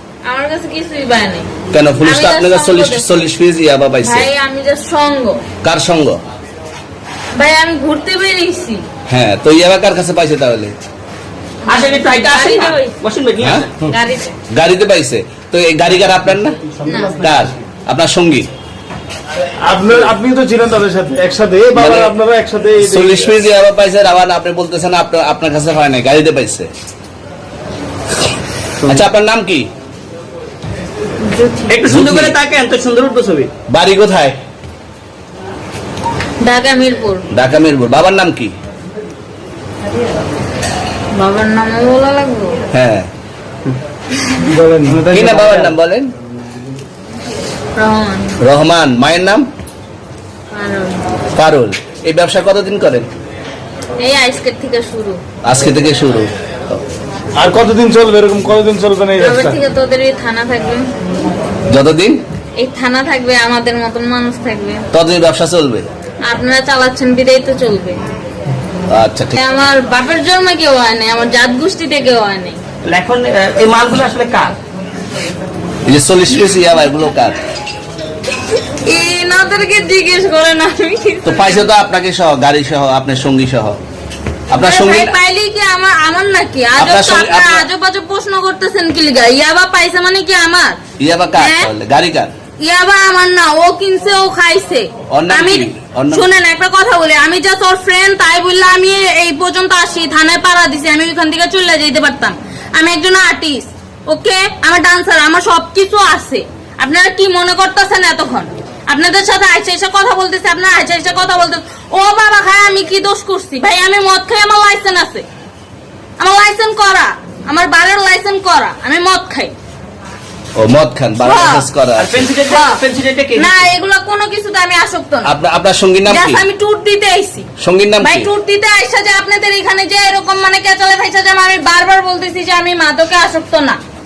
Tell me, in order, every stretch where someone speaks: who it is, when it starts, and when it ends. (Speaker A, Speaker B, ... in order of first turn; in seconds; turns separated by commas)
Speaker A: 0.3-1.5, Speaker B: 1.7-4.3, Speaker A: 2.0-3.2, Speaker A: 4.0-5.4, Speaker B: 5.6-6.2, Speaker A: 7.3-8.8, Speaker B: 9.1-10.7, Speaker A: 11.7-12.9, Speaker C: 11.7-13.8, Speaker B: 13.4-13.7, Speaker A: 13.9-14.4, Speaker B: 14.5-16.6, Speaker A: 16.8-17.2, Speaker B: 17.1-18.5, Speaker D: 19.6-23.4, Speaker B: 21.8-22.1, Speaker B: 22.8-26.7, Speaker B: 28.8-29.7, Speaker A: 31.2-31.7, Speaker C: 31.7-33.5, Speaker B: 31.9-32.4, Speaker B: 33.7-34.4, Speaker A: 36.4-37.2, Speaker B: 37.3-38.5, Speaker A: 41.1-42.6, Speaker B: 42.7-43.1, Speaker A: 44.2-44.5, Speaker D: 44.4-45.7, Speaker B: 45.1-46.1, Speaker A: 47.8-48.3, Speaker B: 48.4-49.4, Speaker A: 50.5-51.0, Speaker B: 51.3-53.1, Speaker A: 54.0-55.2, Speaker B: 55.4-56.3, Speaker D: 57.3-59.6, Speaker A: 59.2-60.8, Speaker B: 61.7-62.2, Speaker A: 62.6-64.8, Speaker B: 64.9-65.9, Speaker A: 66.2-68.0, Speaker B: 68.9-69.3, Speaker A: 69.3-72.6, Speaker C: 72.8-74.6, Speaker B: 75.8-77.3, Speaker A: 78.8-81.7, Speaker B: 81.2-83.8, Speaker B: 84.5-85.2, Speaker A: 84.5-90.8, Speaker B: 86.8-87.7, Speaker B: 91.0-92.3, Speaker A: 91.3-91.7, Speaker A: 92.6-115.2, Speaker B: 95.1-96.2, Speaker A: 116.2-119.5, Speaker B: 120.6-122.3, Speaker A: 121.2-121.7, Speaker C: 122.0-123.7, Speaker A: 122.5-122.8, Speaker A: 123.3-125.3, Speaker B: 125.2-126.4, Speaker A: 126.1-127.5, Speaker B: 127.6-128.3, Speaker A: 128.0-133.8